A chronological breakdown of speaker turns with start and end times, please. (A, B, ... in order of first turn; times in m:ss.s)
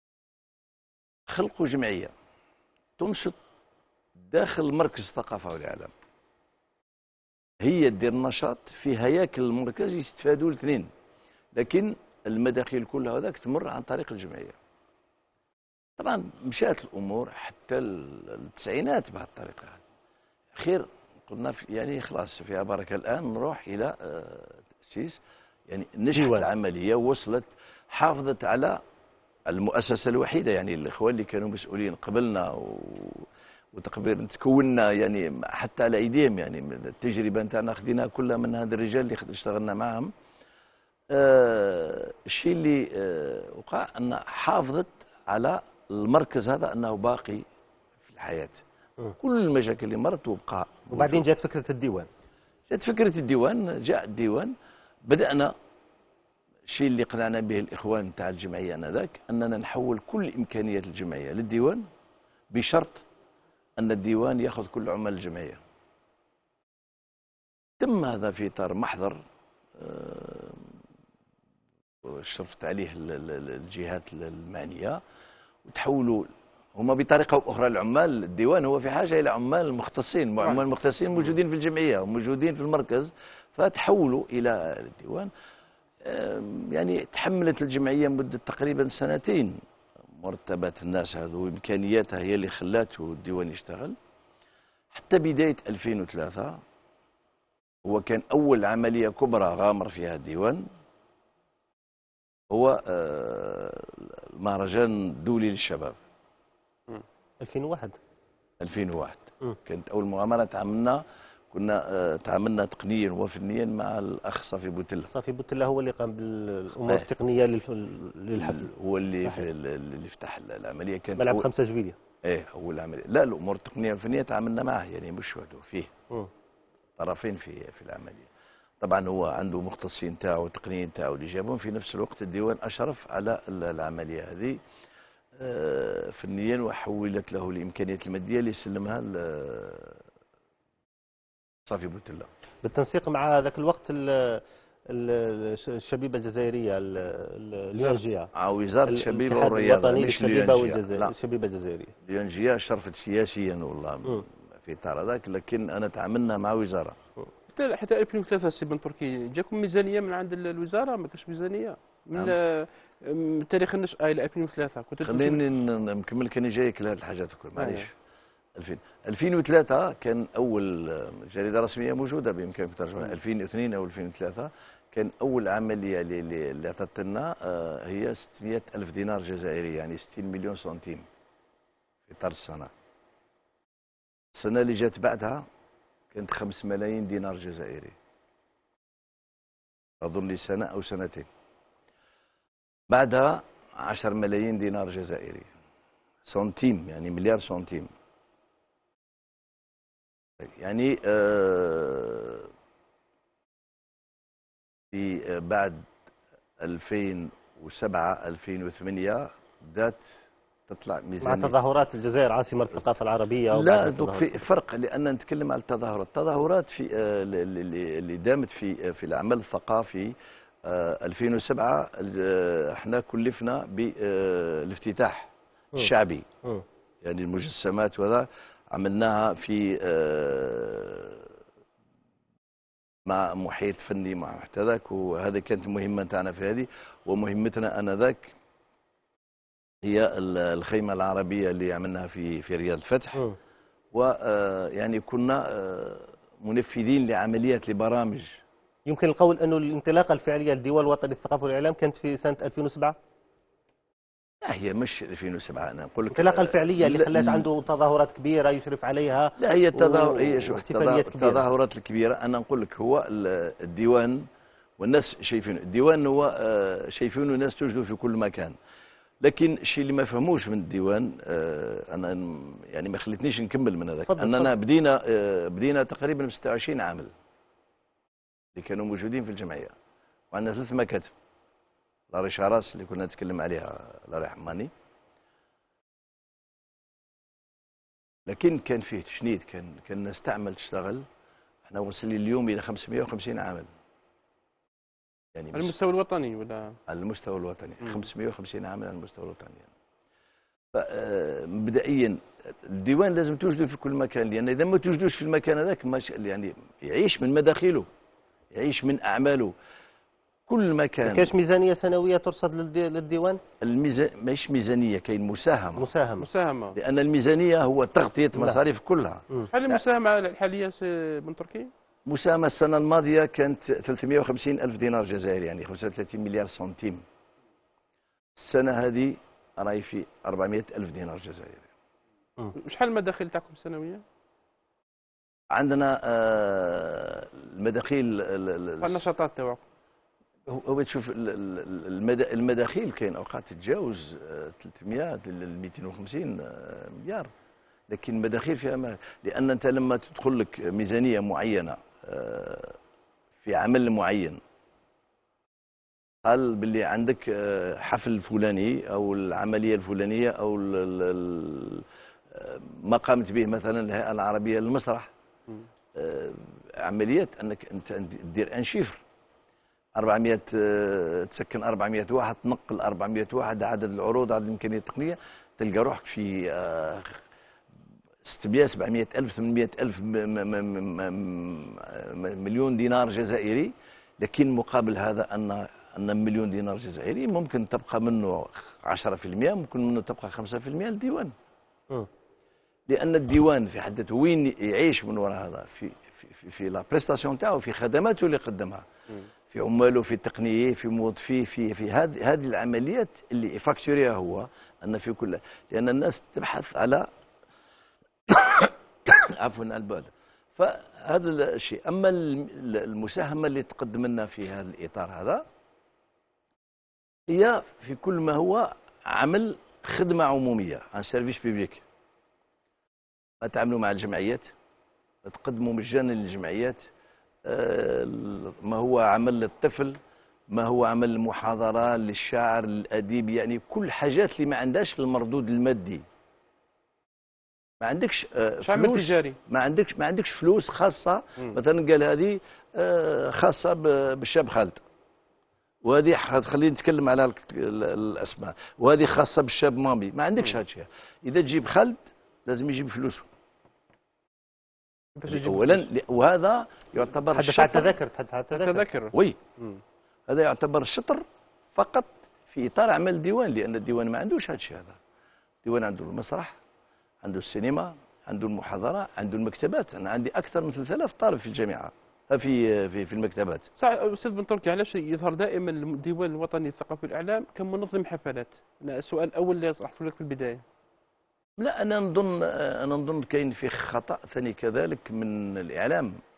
0:01.3-0:02.1 A
0:03.0-0:03.4 A
0:04.2-0:05.9 A
0:07.6-0:10.9 A
0:11.6-0:14.6 A
0:16.0-0:19.8 A
0:20.5-0:28.8 A
0:26.1-0:26.5 B
0:29.5-0:40.1 A
0:41.1-0:47.4 A
0:48.0-0:48.6 A
0:49.2-0:51.2 A
0:50.9-0:52.1 B
0:52.7-0:54.5 A
0:55.0-0:55.5 A
0:56.7-1:01.8 A
1:02.5-1:03.0 A
1:03.8-1:05.6 A
1:07.8-1:09.2 A
1:09.8-1:10.8 A
1:12.0-1:15.0 A
1:15.7-1:25.3 A
1:26.0-1:29.6 A
1:30.2-1:34.0 A
1:34.9-1:36.6 A
1:37.8-1:40.7 A
1:42.5-1:46.0 A
1:47.4-1:48.0 B
1:48.6-1:55.1 A
1:55.1-1:58.7 B
1:58.4-2:01.5 A
2:01.2-2:02.0 B
2:02.2-2:05.9 A
2:07.0-2:08.3 A
2:08.8-2:14.6 A
2:15.4-2:20.0 A
2:21.6-2:22.3 A
2:22.6-2:28.3 B
2:28.3-2:31.1 A
2:28.9-2:31.9 B
2:32.0-2:37.0 A
2:37.5-2:45.4 C
2:45.0-2:47.9 A
2:47.6-2:47.9 C
2:48.6-3:01.1 A
3:02.1-3:02.7 A
3:04.3-3:05.5 A
3:06.1-3:08.0 A
3:10.0-3:11.3 A
3:12.9-3:15.5 A
3:16.2-3:17.9 A
3:20.4-3:22.5 A
3:24.9-3:25.9 A
3:26.6-3:31.6 A
3:31.2-3:34.4 B
3:33.5-3:40.1 A
3:40.6-3:46.3 A
3:47.0-3:51.3 A
3:53.1-3:58.3 A
3:59.8-4:03.2 A
4:03.9-4:08.4 A
4:08.9-4:13.0 B
4:14.4-4:17.5 A
4:16.1-4:21.4 B
4:19.4-4:24.3 A
4:24.8-4:28.6 A
4:29.2-4:37.1 A
4:34.1-4:34.5 B
4:38.6-4:39.8 A
4:40.3-4:41.1 A
4:42.1-4:44.7 A
4:48.3-4:51.1 A
4:51.7-4:53.7 A
4:55.4-4:55.7 A
4:55.5-4:56.8 C
4:56.9-4:59.7 A
5:00.7-5:07.9 A
5:08.5-5:09.5 A
5:10.5-5:11.3 A
5:11.0-5:13.4 B
5:13.6-5:15.9 A
5:15.8-5:16.3 B
5:16.2-5:16.8 C
5:16.8-5:19.8 A
5:19.5-5:21.7 C
5:22.1-5:27.0 A
5:28.4-5:31.7 A
5:32.6-5:34.0 C
5:35.5-5:39.1 A
5:38.8-5:39.6 C
5:40.5-5:47.3 A
5:47.9-5:52.8 A
5:53.4-5:54.4 A
5:56.2-6:05.1 A
6:06.0-6:09.0 A
6:10.0-6:17.2 A
6:18.2-6:31.3 A
6:32.9-6:38.8 A
6:39.5-6:47.1 A
6:48.3-6:55.4 A
6:57.3-7:01.8 A
7:03.4-7:04.5 A
7:05.2-7:06.8 A
7:07.5-7:10.0 A
7:10.5-7:16.0 A
7:17.8-7:24.8 A
7:18.6-7:19.4 C
7:25.8-7:33.3 A
7:35.2-7:35.9 C
7:35.3-7:38.0 A
7:37.3-7:38.8 B
7:38.5-7:39.8 C
7:39.1-7:39.4 A
7:40.3-7:45.0 A
7:45.6-7:46.6 A
7:47.2-7:53.7 A
7:53.8-8:00.6 C
8:01.6-8:06.2 A